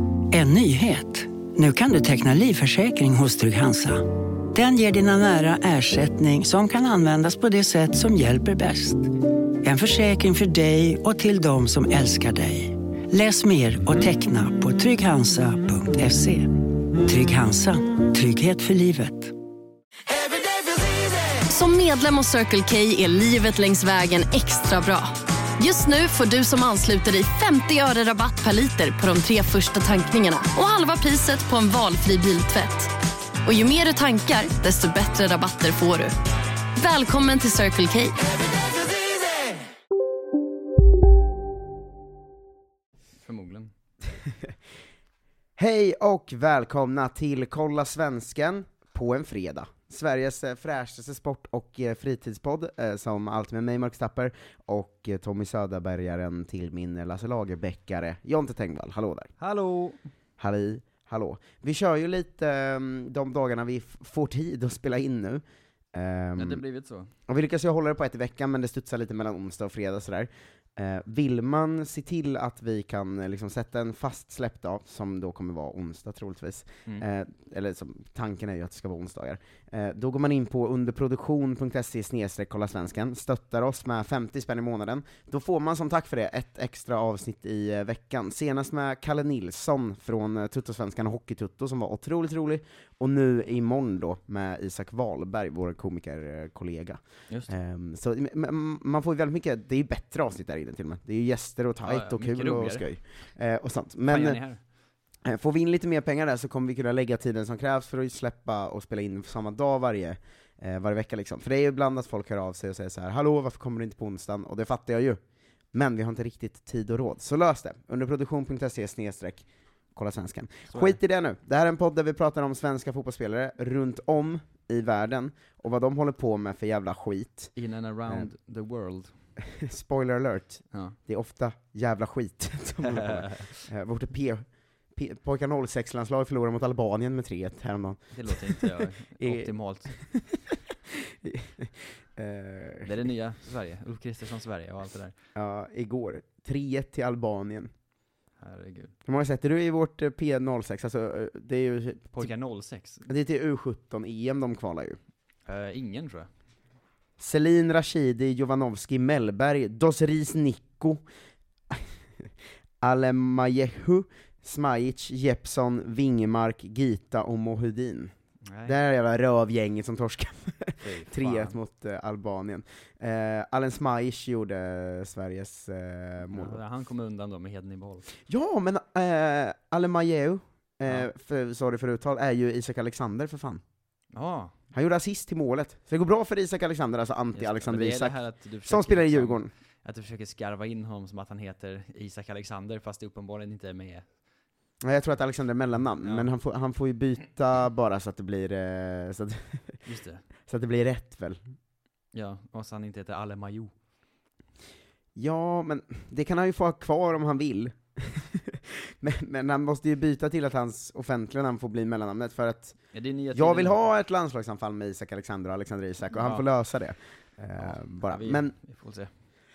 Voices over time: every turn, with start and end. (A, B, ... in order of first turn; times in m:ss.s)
0:00.3-0:19.3 A
0:21.4-0:32.9 B
0:33.4-0:36.1 B
0:36.8-0:38.2 B
0:43.2-0:43.7 C
0:45.6-0:59.3 D
0:59.4-1:00.0 C
1:00.4-1:05.4 D
1:05.9-1:06.6 D
1:06.4-1:07.1 C
1:07.3-1:44.4 D
1:41.8-1:42.9 C
1:44.1-1:44.6 C
1:45.2-1:55.2 D
1:55.7-2:07.5 D
2:00.7-2:01.0 C
2:07.6-2:09.1 C
2:09.4-2:22.9 D
2:10.7-2:11.0 C
2:12.8-2:13.7 C
2:18.1-2:20.0 C
2:22.8-2:25.2 C
2:25.3-2:27.7 D
2:28.4-2:28.9 C
2:29.0-2:32.3 D
2:32.1-2:33.1 C
2:33.1-2:35.0 D
2:35.5-2:36.3 C
2:37.2-2:41.0 D
2:42.8-2:48.1 D
2:48.4-2:48.8 C
2:48.6-2:56.6 D
2:50.8-2:51.6 C
2:56.3-2:58.0 C
2:58.3-3:03.6 D
3:04.1-3:04.5 C
3:04.7-3:09.5 D
3:07.3-3:14.1 C
3:14.8-3:19.6 D
3:16.0-3:16.3 C
3:19.8-3:20.2 C
3:20.5-3:21.4 D
3:22.1-3:23.7 C
3:25.1-3:32.8 D
3:32.9-3:33.8 C
3:33.3-3:38.5 D
3:36.2-3:36.4 C
3:37.6-3:39.1 C